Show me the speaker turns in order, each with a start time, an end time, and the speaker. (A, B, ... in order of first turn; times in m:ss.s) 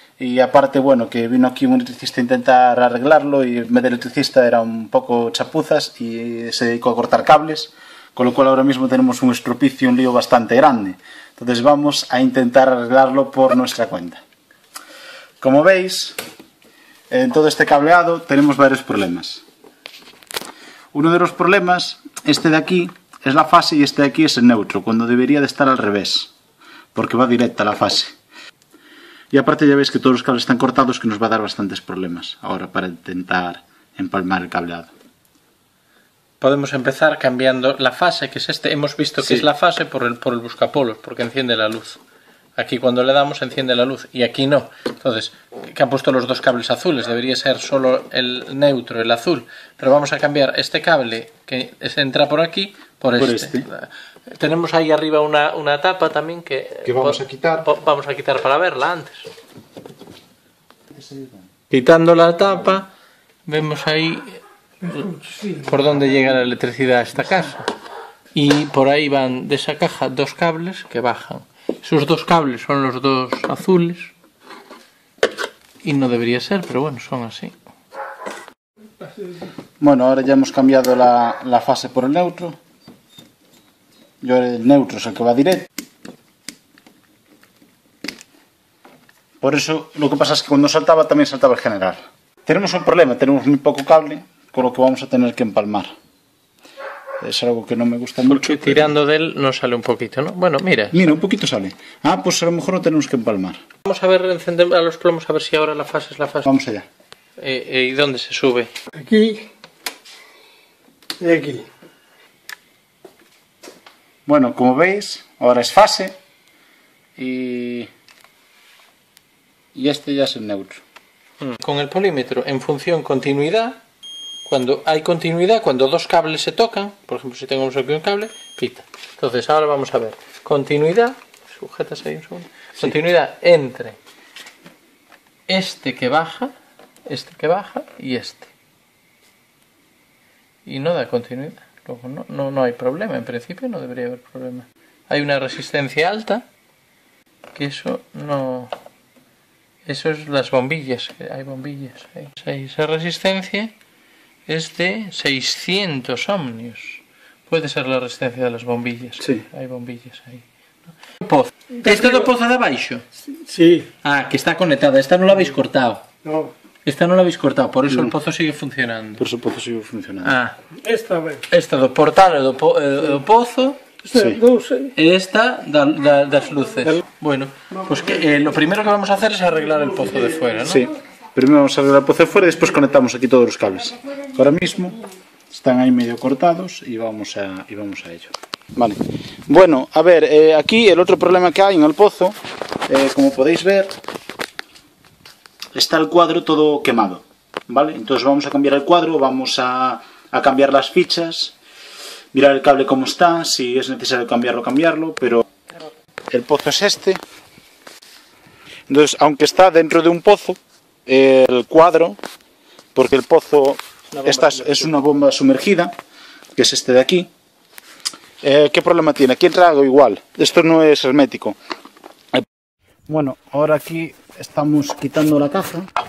0:00.2-0:14.2 A
0:15.4-0:16.2 A
0:17.1-0:19.4 A
0:20.9-0:26.3 A
0:27.0-0:28.2 A
0:29.3-0:34.9 A
0:36.4-0:42.0 B
0:39.2-0:39.5 A
0:42.6-0:59.3 B
0:53.2-0:53.7 A
0:56.8-0:57.7 A
1:00.9-1:01.5 A
1:01.7-1:02.9 B
1:03.5-1:04.4 B
1:04.8-1:06.4 C
1:05.0-1:07.7 B
1:08.4-1:14.1 B
1:15.8-1:17.6 B
1:19.8-1:22.6 A
1:24.2-1:25.7 A
1:29.4-1:35.9 A
1:37.2-1:39.0 A
1:38.2-1:41.1 B
1:40.9-1:43.6 A
1:43.8-1:46.5 B
1:46.4-1:46.9 A
1:47.4-1:48.7 B
1:48.9-1:49.5 C
1:51.2-1:51.7 C
1:54.3-1:56.2 A
1:57.2-1:57.9 A
1:59.7-2:00.8 A
2:01.4-2:03.8 B
2:04.5-2:14.0 B
2:15.5-2:16.5 B
2:17.1-2:18.5 B
2:20.7-2:26.5 B
2:27.6-2:28.7 B
2:29.9-2:33.7 B
2:34.5-2:40.4 B
2:41.0-2:43.0 B
2:41.7-2:42.3 C
2:43.2-2:43.9 C
2:44.0-2:46.0 B
2:46.2-2:46.5 C
2:46.8-2:49.2 B
2:47.9-2:48.2 A
2:49.2-2:50.4 A
2:50.2-2:50.6 B
2:50.8-2:51.5 C
2:51.5-2:53.8 B
2:54.0-2:55.0 C
2:54.1-2:54.4 A
2:55.0-3:00.9 B
3:00.6-3:14.0 A
3:15.7-3:21.6 A
3:22.3-3:25.5 A
3:26.3-3:27.2 A
3:28.9-3:32.2 A
3:33.0-3:36.0 A
3:34.1-3:35.0 B
3:36.6-3:37.3 A
3:38.4-3:41.6 A
3:43.1-3:45.9 A